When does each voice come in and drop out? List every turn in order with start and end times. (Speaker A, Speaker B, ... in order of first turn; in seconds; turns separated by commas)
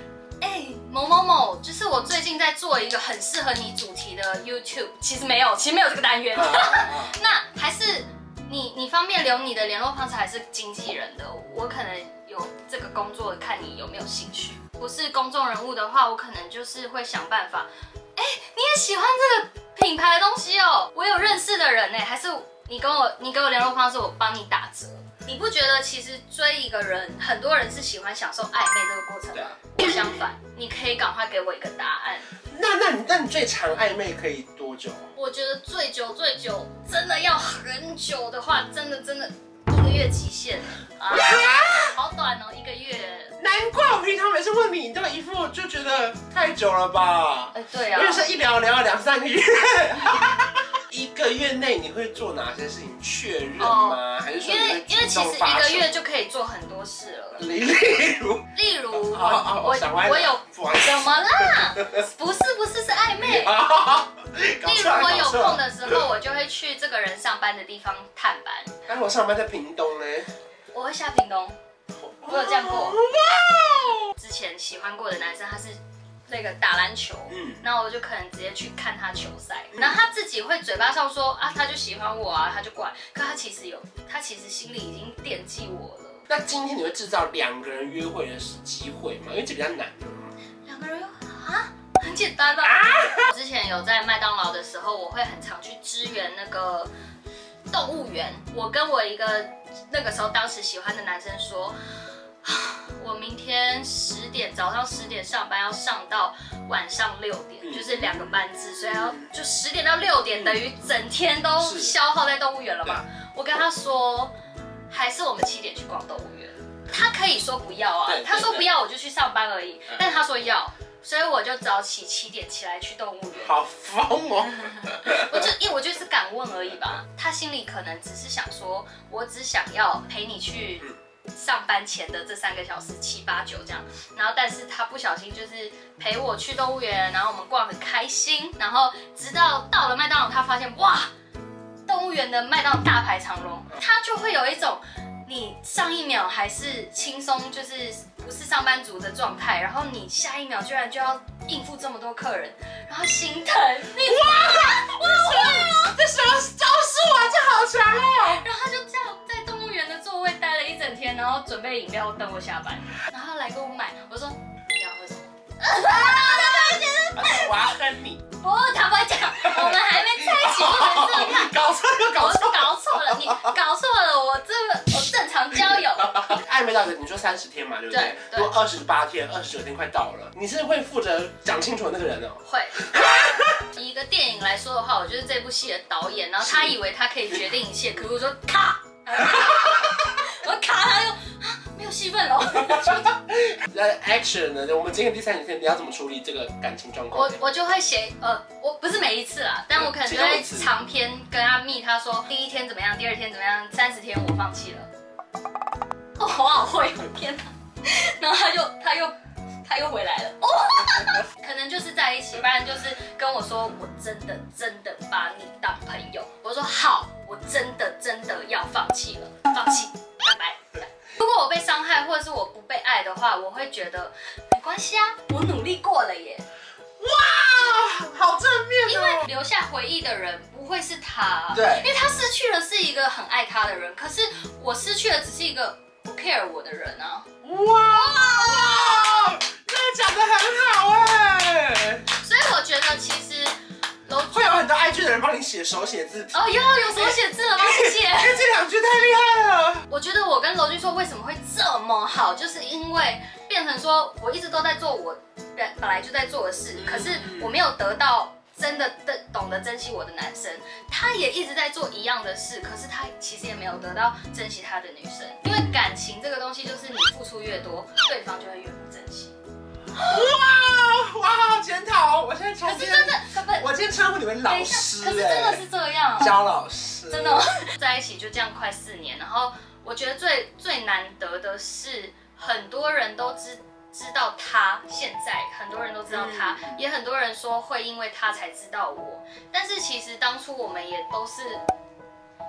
Speaker A: 0.4-32.3, Speaker B: 6.3-7.2, Speaker B: 29.3-30.2, Speaker B: 32.5-35.1, Speaker A: 35.1-43.4, Speaker B: 41.1-42.0, Speaker B: 43.4-55.9, Speaker A: 47.5-48.3, Speaker A: 53.6-57.5, Speaker B: 57.4-62.0, Speaker A: 58.5-63.6, Speaker B: 63.2-66.0, Speaker A: 64.6-68.8, Speaker B: 68.9-70.3, Speaker A: 70.7-71.5, Speaker B: 72.0-74.1, Speaker A: 72.3-73.0, Speaker A: 74.2-86.2, Speaker B: 77.3-77.6, Speaker B: 86.3-90.3, Speaker A: 90.6-96.9, Speaker B: 92.6-93.3, Speaker A: 97.7-101.8, Speaker A: 102.4-114.3, Speaker B: 107.6-109.3, Speaker B: 110.3-110.6, Speaker B: 111.6-112.0, Speaker A: 114.9-123.5, Speaker B: 118.0-118.7, Speaker B: 123.4-125.5, Speaker A: 124.8-141.1, Speaker A: 141.8-156.0, Speaker B: 154.0-158.4, Speaker A: 158.2-167.7, Speaker B: 165.8-168.2, Speaker A: 168.4-171.6, Speaker B: 169.4-173.5, Speaker A: 172.1-176.3, Speaker B: 175.6-183.7, Speaker A: 177.9-178.5, Speaker A: 182.4-182.9, Speaker A: 183.7-193.2, Speaker B: 186.4-186.8, Speaker B: 189.2-189.9, Speaker B: 192.6-197.4, Speaker A: 197.1-204.9, Speaker B: 199.7-200.7, Speaker A: 206.2-226.4, Speaker B: 227.0-229.3, Speaker A: 228.8-237.3, Speaker B: 231.5-231.9, Speaker B: 237.4-242.1, Speaker A: 237.9-239.1, Speaker A: 242.2-243.5, Speaker A: 244.1-244.7, Speaker B: 244.3-249.8, Speaker A: 246.3-248.5, Speaker A: 249.9-269.3, Speaker B: 256.8-257.5, Speaker B: 269.9-275.6, Speaker A: 272.6-273.7, Speaker A: 274.4-276.3, Speaker B: 276.2-277.4, Speaker A: 277.1-291.6, Speaker B: 286.1-286.8